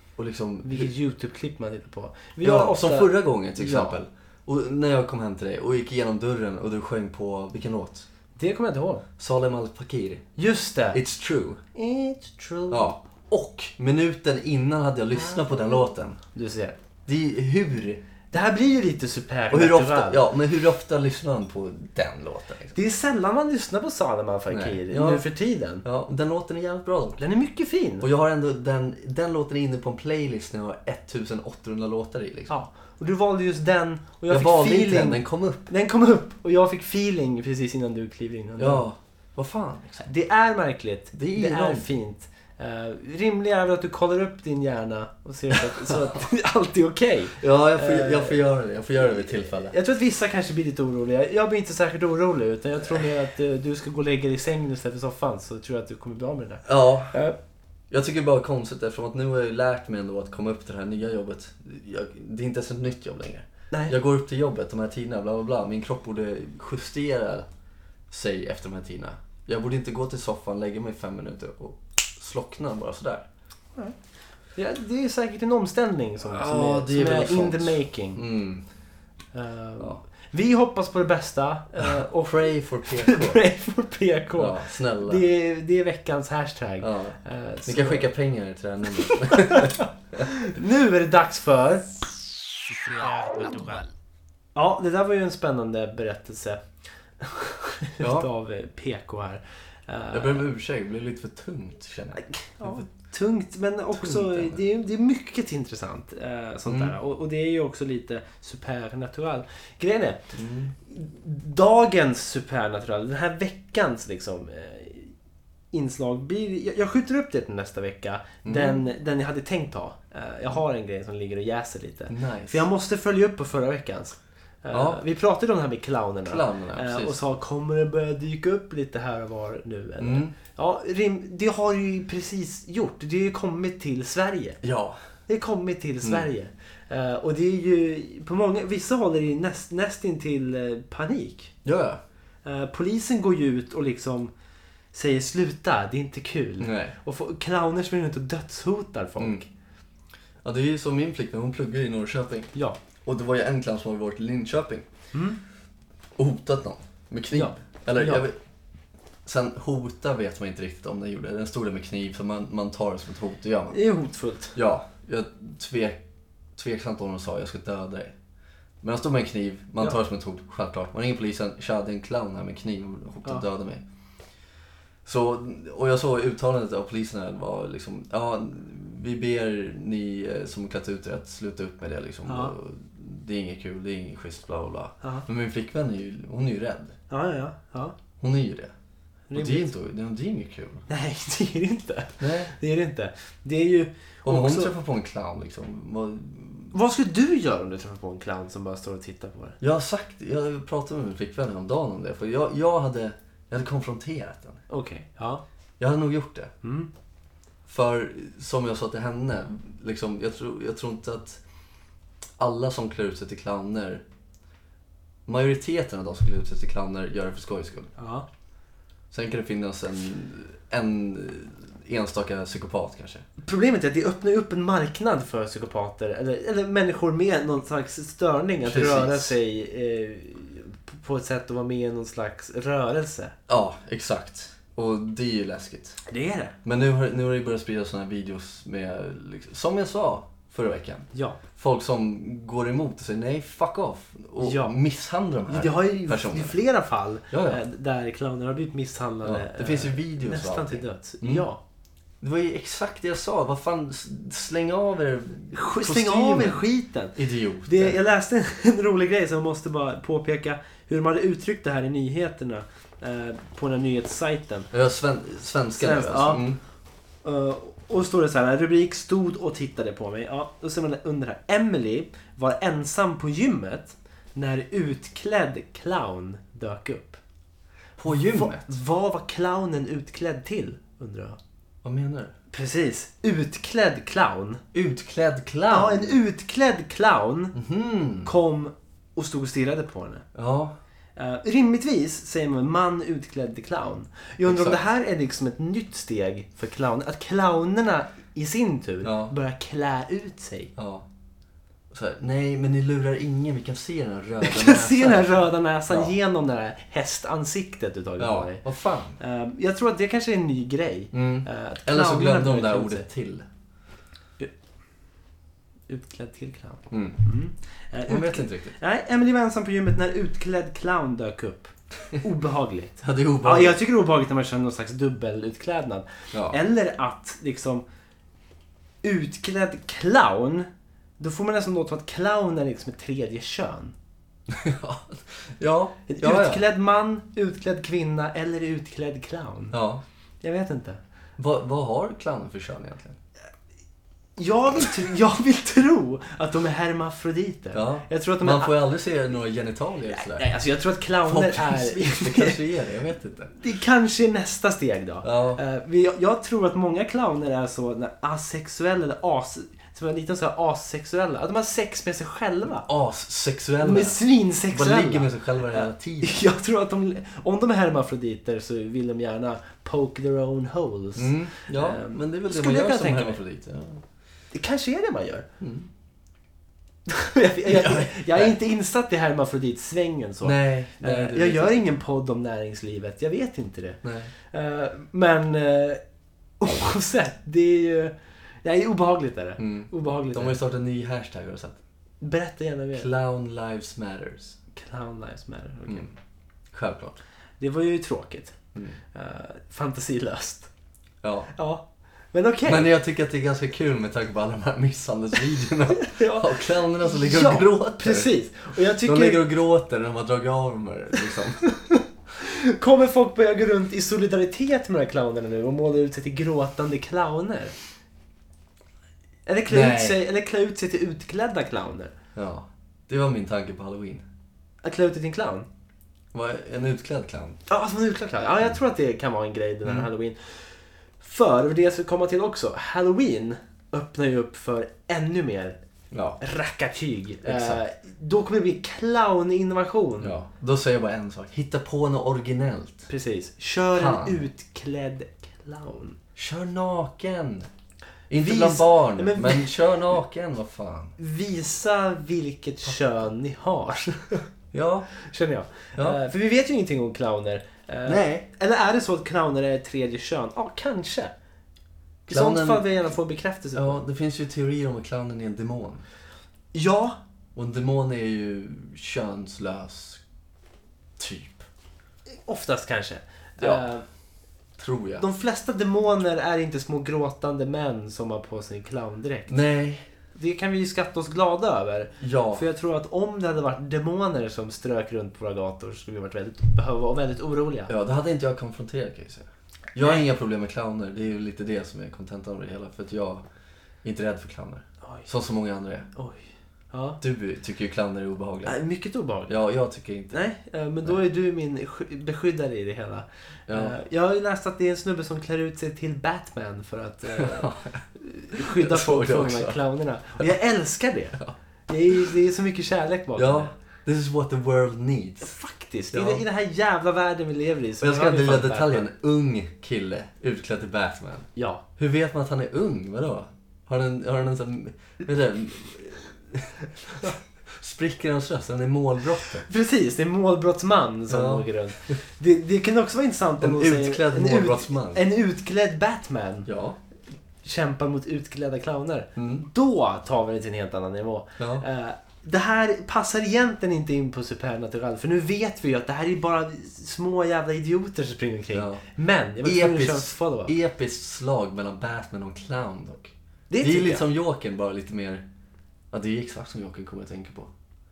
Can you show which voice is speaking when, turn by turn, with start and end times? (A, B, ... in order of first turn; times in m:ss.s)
0:00.2-0:00.9 A
0:00.6-0:04.0 B
0:02.4-0:08.1 A
0:08.4-0:09.0 B
0:09.2-0:10.3 A
0:10.4-0:11.0 B
0:10.9-0:11.6 A
0:11.8-0:12.9 B
0:12.7-0:16.2 A
0:15.2-0:16.8 B
0:17.1-0:18.0 A
0:18.3-0:20.2 B
0:19.5-0:22.8 A
0:22.8-0:25.8 B
0:24.5-0:25.3 A
0:25.8-0:27.2 A
0:27.2-0:28.1 B
0:28.0-0:32.5 A
0:32.5-0:38.9 B
0:34.3-0:35.7 A
0:38.6-0:40.1 A
0:40.0-0:48.4 B
0:41.1-0:41.9 A
0:45.7-0:46.2 A
0:47.4-0:49.8 A
0:49.0-0:57.4 B
0:56.6-0:57.2 A
0:57.9-1:07.5 A
1:08.1-1:13.3 A
1:14.6-1:18.2 B
1:16.2-1:18.6 A
1:19.3-1:28.1 B
1:21.8-1:23.4 A
1:24.4-1:25.2 A
1:26.8-1:30.3 A
1:29.1-1:32.2 B
1:32.9-1:33.9 B
1:34.6-1:36.6 B
1:37.2-1:40.5 B
1:38.0-1:38.3 A
1:40.1-1:42.8 A
1:42.2-1:50.3 B
1:44.0-1:44.6 A
1:46.7-1:47.0 A
1:50.3-1:50.7 A
1:50.9-1:55.1 B
1:55.7-2:14.6 B
1:58.4-1:58.8 A
2:02.1-2:02.6 A
2:04.7-2:05.0 A
2:06.3-2:07.2 A
2:10.0-2:10.3 A
2:14.6-2:15.0 A
2:15.3-2:21.5 B
2:21.6-2:22.0 A
2:22.4-2:24.3 B
2:24.9-2:29.5 B
2:26.6-2:27.0 A
2:30.4-2:32.5 A
2:33.0-2:34.9 A
2:35.1-2:35.4 B
2:36.2-2:38.4 A
2:37.3-2:38.3 B
2:39.2-2:43.8 A
2:43.7-2:44.6 B
2:44.6-2:46.0 A
2:46.6-2:48.1 A
2:48.8-2:53.8 A
2:55.0-3:07.0 A
3:02.3-3:02.5 B
3:07.1-3:08.0 B
3:08.2-3:08.7 A
3:09.3-3:09.7 B
3:09.3-3:10.8 A
3:10.9-3:14.7 B
3:12.2-3:12.5 A
3:14.2-3:16.7 A
3:16.7-3:19.6 B
3:19.6-3:24.6 A
3:24.7-3:25.4 B
3:25.8-3:26.5 A
3:26.6-3:26.9 B
3:27.7-3:31.4 A
3:32.4-3:34.0 A
3:35.3-3:37.9 A
3:38.0-3:38.2 B
3:39.1-3:43.3 A
3:43.4-3:53.4 B
3:48.6-3:49.3 A
3:53.5-3:56.0 A
3:56.1-3:56.6 B
3:56.6-4:06.6 A
4:01.1-4:01.4 B
4:04.4-4:04.7 B
4:05.5-4:11.6 B
4:07.3-4:07.6 A
4:09.2-4:11.5 A
4:12.2-4:16.6 A
4:15.5-4:24.7 B
4:17.2-4:18.0 A
4:24.7-4:26.6 A
4:25.8-4:26.4 B
4:27.2-4:37.2 B
4:38.0-4:38.7 A
4:38.1-4:41.4 B
4:41.8-4:42.4 A
4:42.5-4:44.6 B
4:44.7-4:46.2 A
4:45.7-4:47.6 B
4:47.5-4:48.3 A
4:48.2-4:50.2 B
4:50.4-4:50.8 A
4:51.2-5:00.7 B
4:54.4-4:54.8 A
4:59.0-4:59.3 A
5:00.8-5:01.0 A
5:01.9-5:06.1 A
5:04.4-5:08.6 B
5:08.2-5:09.2 A
5:09.2-5:13.1 B
5:11.1-5:13.5 A
5:15.9-5:27.8 B
5:16.9-5:17.2 A
5:18.1-5:18.8 A
5:23.0-5:23.8 A
5:26.3-5:26.6 A
5:29.0-5:33.9 B
5:34.5-5:36.6 A
5:36.1-5:39.8 B
5:39.7-5:40.0 A
5:40.4-5:41.0 B
5:41.4-5:43.2 A
5:44.4-5:48.8 B
5:47.7-5:50.5 A
5:50.2-5:52.6 B
5:51.2-5:53.6 A
5:53.6-6:02.9 B
5:55.2-5:55.6 A
6:02.8-6:06.4 A
6:03.8-6:13.4 B
6:11.2-6:14.0 A
6:14.5-6:15.5 B
6:15.6-6:15.9 A
6:17.1-6:26.0 B
6:17.7-6:18.6 A
6:20.4-6:21.9 A
6:24.0-6:24.3 A
6:26.6-6:30.6 B
6:29.6-6:31.8 A
6:32.2-6:33.1 B
6:33.0-6:34.6 A
6:34.7-6:36.1 B
6:35.9-6:36.1 A
6:36.7-6:37.2 A
6:37.6-6:38.6 B
6:39.1-6:40.7 B
6:41.2-6:41.5 A
6:41.6-6:42.9 B
6:42.7-6:48.3 A
6:46.0-6:49.5 B
6:48.9-6:51.8 A
6:51.6-6:57.8 B
6:59.5-7:02.1 B
6:59.7-7:00.2 A
7:02.4-7:04.2 A
7:04.8-7:05.7 B
7:06.3-7:07.6 A
7:07.7-7:15.8 B
7:09.8-7:10.1 A
7:16.1-7:16.4 A
7:16.4-7:20.4 B
7:17.4-7:17.8 A
7:20.2-7:23.1 A
7:23.1-7:26.2 B
7:23.9-7:24.5 A
7:26.4-7:27.7 A
7:28.3-7:31.1 A
7:28.4-7:29.7 B
7:31.2-7:34.4 B
7:34.7-7:35.1 A
7:35.2-7:41.3 B
7:38.1-7:38.5 A
7:42.3-7:43.1 A
7:42.3-7:44.0 B
7:43.8-7:46.0 A
7:46.7-7:47.2 B
7:47.6-7:50.2 A
7:51.2-7:51.7 A
7:52.5-7:54.0 B
7:53.6-7:53.9 A
7:54.8-7:55.2 A
7:55.2-7:59.6 B
7:59.5-8:00.0 A
8:00.3-8:07.9 B
8:02.2-8:02.6 A
8:07.9-8:13.4 A
8:10.0-8:10.2 B
8:14.0-8:16.1 A
8:15.0-8:15.3 B
8:16.1-8:17.2 B
8:17.2-8:18.8 A
8:18.6-8:19.5 B
8:19.5-8:20.4 A
8:20.3-8:33.7 B
8:23.7-8:24.0 A
8:27.4-8:29.8 A
8:33.4-8:35.6 A
8:35.4-8:39.1 B
8:36.1-8:36.4 A
8:38.0-8:49.6 A
8:41.6-8:41.8 B
8:49.6-8:56.7 B
8:51.3-8:52.2 A
8:53.6-8:55.2 A
8:56.7-8:57.0 A
8:57.6-9:10.7 B
8:59.4-8:59.7 A
9:01.6-9:01.8 A
9:08.7-9:09.0 A
9:09.6-9:15.4 A
9:13.7-9:14.2 B
9:16.1-9:17.7 A